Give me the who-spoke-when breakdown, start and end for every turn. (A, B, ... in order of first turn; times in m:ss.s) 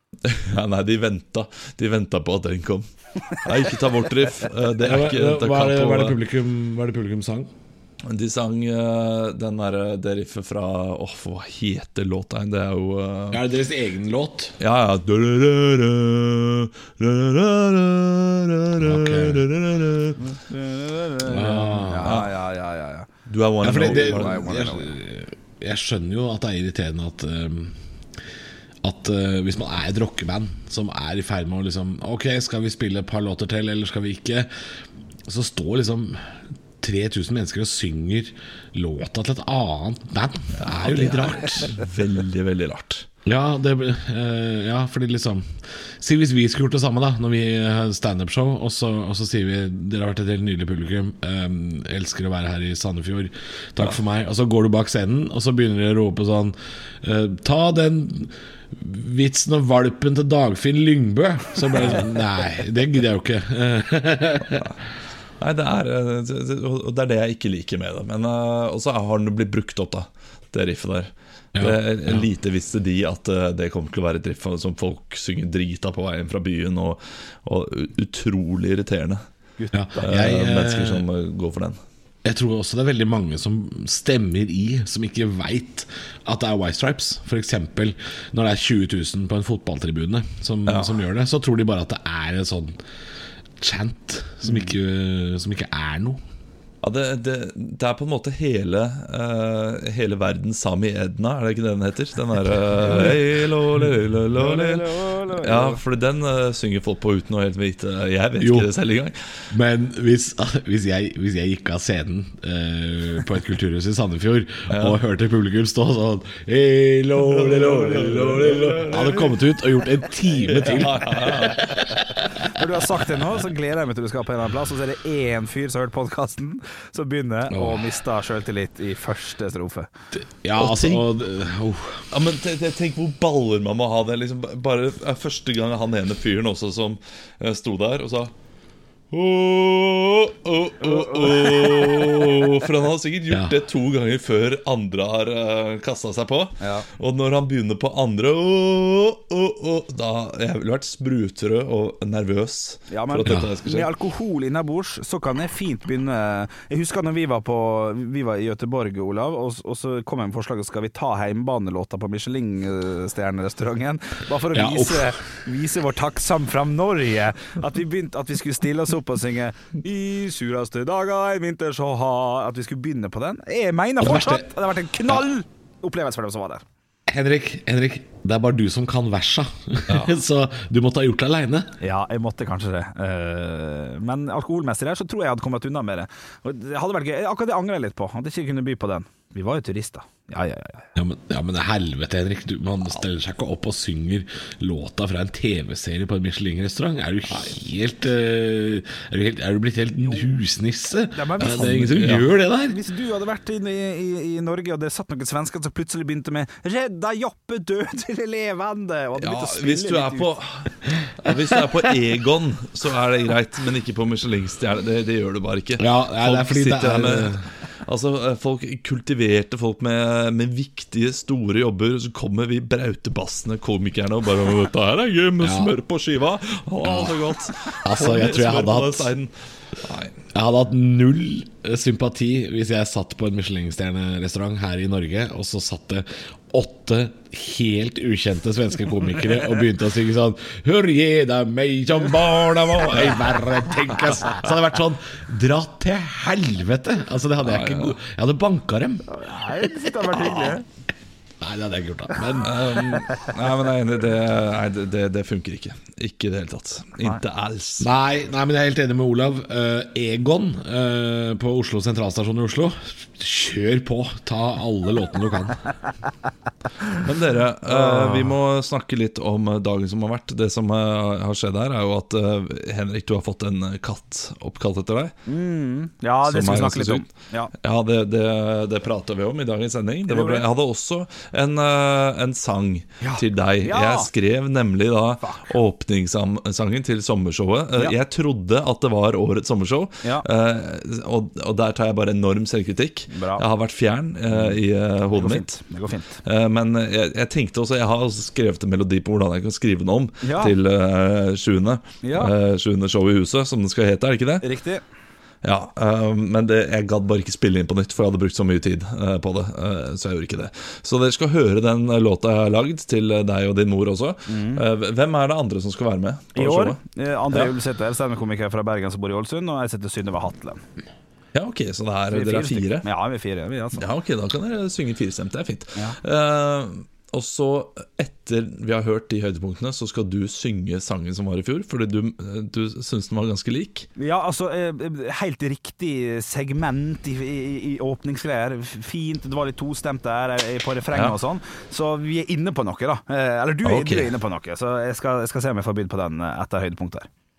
0:00.2-0:06.2 A
0:04.8-0:07.5 B
0:08.0-0:13.4 A
0:13.3-0:14.6 B
0:14.6-0:20.2 A
0:18.8-0:19.5 B
0:20.2-0:23.1 C
0:21.2-0:22.2 B
0:22.0-0:22.4 A
0:23.3-0:24.6 A
0:23.6-0:27.8 B
0:23.7-0:24.9 C
0:28.8-0:34.5 B
0:35.3-0:41.8 B
0:40.6-0:43.1 A
0:43.2-1:04.7 B
1:05.4-1:19.2 A
1:11.6-1:12.3 B
1:19.6-1:20.1 C
1:19.7-1:21.1 B
1:20.0-1:21.8 A
1:22.2-1:32.8 B
1:30.7-1:31.0 A
1:33.6-1:36.2 B
1:36.8-1:49.5 A
1:44.4-1:45.8 C
1:48.4-1:48.7 B
1:49.5-2:02.5 B
1:54.7-1:55.0 A
1:57.3-1:59.4 A
2:00.4-2:01.8 A
2:02.5-2:09.9 C
2:07.5-2:08.0 B
2:10.1-2:12.1 B
2:10.6-2:11.1 A
2:12.1-2:18.3 A
2:19.1-2:33.9 A
2:20.9-2:22.3 C
2:26.6-2:26.9 C
2:32.9-2:56.6 C
2:33.2-2:33.5 B
2:44.5-2:45.2 B
2:54.0-2:54.5 B
2:57.1-3:01.8 B
3:01.8-3:10.9 C
3:11.0-3:22.8 B
3:21.1-3:30.3 C
3:21.6-3:22.3 A
3:29.2-3:50.2 A
3:31.3-3:31.5 B
3:35.8-3:37.5 B
3:45.4-3:45.7 B
3:46.8-3:47.2 B
3:47.8-3:49.1 B
3:50.3-4:09.1 B
4:07.4-4:08.0 A
4:09.1-4:10.6 C
4:11.4-4:12.7 B
4:12.4-4:17.9 A
4:17.8-4:25.6 B
4:27.0-4:35.2 A
4:27.7-4:28.3 C
4:35.3-4:37.5 C
4:36.2-4:37.1 A
4:37.6-4:55.6 A
4:40.1-4:40.4 C
4:43.0-4:44.1 C
4:45.2-4:45.5 C
4:53.1-4:53.4 C
4:55.1-4:56.2 C
4:56.2-5:04.5 A
5:00.2-5:00.5 C
5:02.0-5:02.3 C
5:04.4-5:04.8 C
5:05.4-5:16.8 A
5:14.3-5:14.6 C
5:16.4-5:20.6 C
5:21.3-5:22.9 A
5:22.1-5:23.8 C
5:23.8-5:33.9 A
5:34.0-5:47.1 C
5:43.6-5:44.1 A